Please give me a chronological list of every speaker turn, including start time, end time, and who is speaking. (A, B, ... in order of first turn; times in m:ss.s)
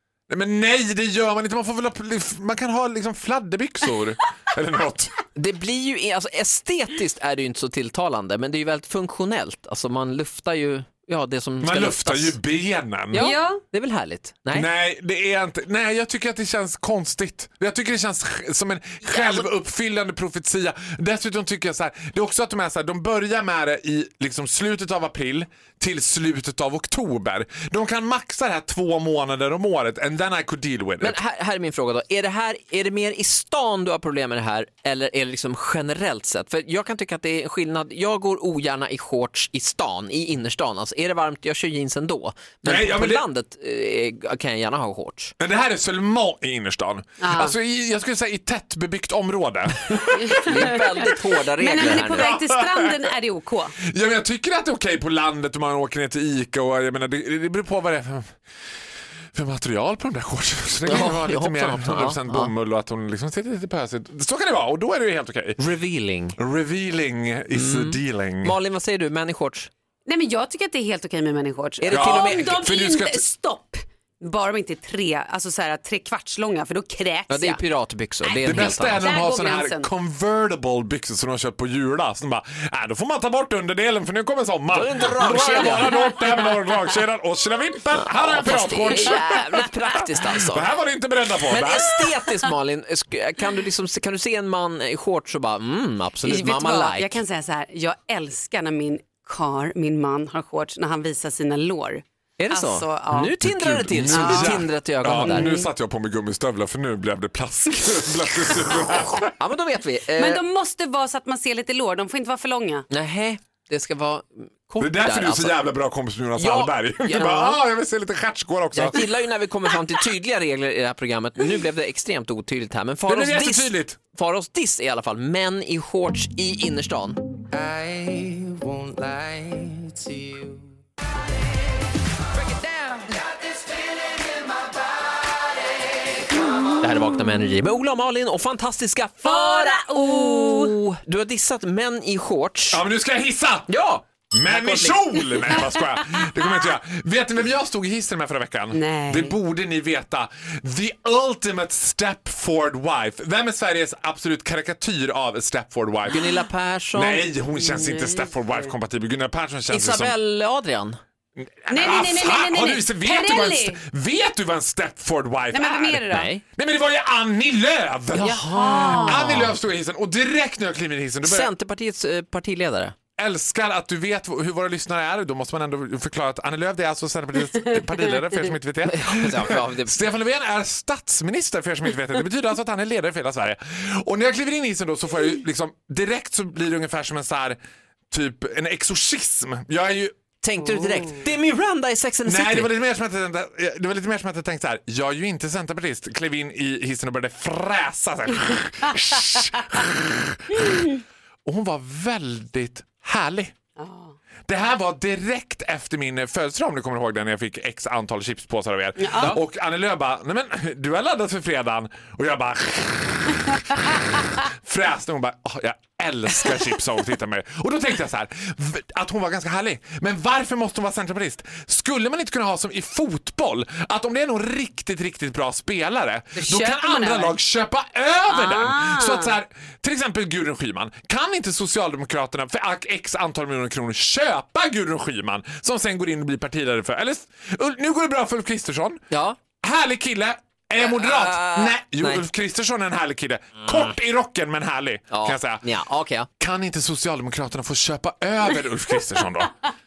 0:00.3-0:05.2 A
0:05.3-0:12.4 B
0:11.6-0:13.3 A
0:13.1-0:14.7 B
0:13.2-0:13.6 C
0:14.5-0:31.2 A
0:31.0-0:45.3 B
0:42.6-0:43.2 A
0:45.4-0:51.2 A
0:47.2-0:47.5 C
0:50.1-0:53.7 C
0:50.4-0:52.3 B
0:51.8-0:53.1 A
0:53.8-0:58.3 A
0:59.3-1:05.6 A
1:00.8-1:02.5 B
1:05.6-1:06.4 B
1:06.4-1:08.6 A
1:07.5-1:09.7 B
1:10.0-1:17.6 C
1:11.8-1:12.5 B
1:11.9-1:13.2 A
1:17.3-1:19.0 B
1:18.4-1:32.0 A
1:18.5-1:19.9 C
1:24.7-1:26.1 B
1:28.0-1:30.7 B
1:31.5-1:37.2 B
1:36.2-1:43.4 C
1:42.4-1:45.5 B
1:43.4-1:49.3 A
1:44.0-1:45.7 C
1:49.3-1:50.4 B
1:50.2-1:52.8 C
1:52.9-1:55.6 B
1:54.8-1:59.0 A
1:56.4-1:57.6 B
1:58.7-2:07.2 B
2:03.1-2:04.0 A
2:07.5-2:10.6 D
2:16.8-2:22.8 B
2:19.2-2:20.7 C
2:22.7-2:23.7 A
2:23.7-2:25.7 B
2:24.3-2:40.1 A
2:28.7-2:29.4 C
2:36.1-2:37.2 B
2:37.5-2:38.7 C
2:39.7-2:41.0 B
2:41.6-2:51.5 A
2:41.7-2:43.8 C
2:45.5-2:46.3 C
2:46.1-2:46.4 B
2:48.2-2:49.6 B
2:48.2-2:49.3 C
2:51.2-2:52.9 B
2:53.2-3:07.6 A
2:58.9-3:00.0 B
3:08.1-3:10.1 A
3:10.4-3:12.7 B
3:12.2-3:23.5 A
3:23.8-3:24.1 C
3:24.5-3:59.0 A
3:29.0-3:29.4 C
3:46.4-3:47.4 C
3:48.3-3:49.4 C
3:59.1-3:59.4 B
3:59.6-4:05.6 A
4:00.8-4:02.2 B
4:05.1-4:06.3 B
4:06.4-4:09.6 A